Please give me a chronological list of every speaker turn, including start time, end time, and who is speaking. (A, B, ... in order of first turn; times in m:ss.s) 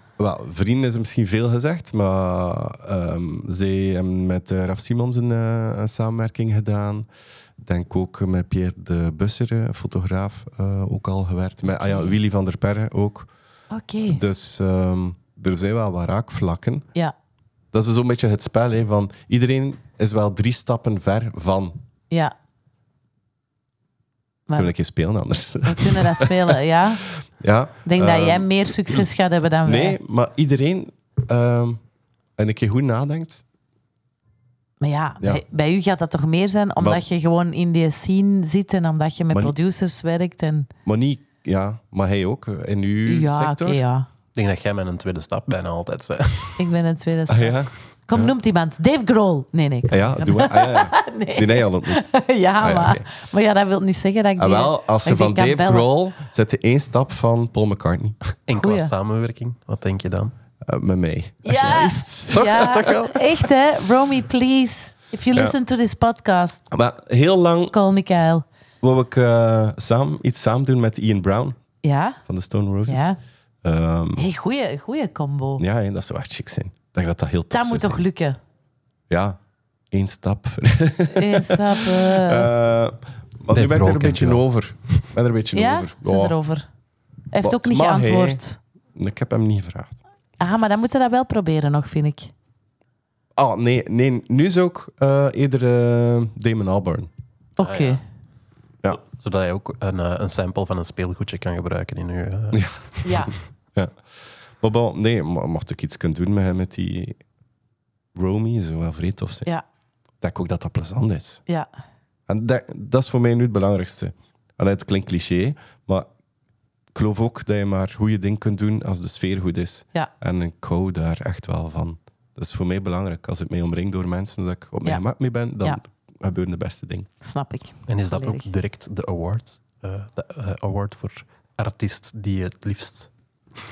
0:00.2-0:07.1 A
0:07.6-0:13.3 A
0:11.7-0:12.2 B
0:13.7-0:14.2 B
0:14.1-0:16.9 A
0:17.7-0:21.8 A
0:24.5-0:24.8 B
0:24.6-0:26.6 A
0:25.6-0:27.0 B
0:27.1-0:29.1 A
0:27.9-0:30.0 B
0:29.6-0:31.8 A
0:32.4-0:33.4 A
0:34.8-0:40.7 B
0:40.8-0:43.8 A
0:43.0-0:44.1 B
0:44.4-0:46.7 C
0:46.6-0:55.9 B
0:47.3-0:48.4 A
0:49.9-0:53.1 A
0:54.4-0:58.2 A
0:58.5-1:00.4 C
0:58.6-0:58.9 B
1:00.6-1:03.0 A
1:01.4-1:06.7 B
1:02.3-1:03.2 C
1:06.7-1:07.8 A
1:07.7-1:08.4 B
1:08.8-1:11.6 A
1:11.8-1:12.2 B
1:12.2-1:13.1 A
1:12.9-1:13.2 B
1:13.6-1:14.3 A
1:14.2-1:15.6 B
1:15.6-1:18.0 A
1:17.5-1:18.4 B
1:19.1-1:19.4 A
1:19.9-1:26.4 A
1:21.2-1:22.5 B
1:23.5-1:24.4 C
1:25.5-1:26.7 B
1:27.3-1:28.6 B
1:27.4-1:28.4 A
1:29.0-1:30.0 A
1:30.4-1:32.3 B
1:33.4-1:37.1 A
1:37.6-1:38.0 B
1:37.6-1:38.0 C
1:38.9-1:43.2 C
1:42.5-1:42.8 A
1:43.0-1:43.3 B
1:43.7-1:47.2 A
1:48.2-1:49.5 A
1:50.2-1:51.4 A
1:52.3-1:56.1 A
1:56.9-2:07.1 A
2:07.2-2:08.5 B
2:07.9-2:13.1 C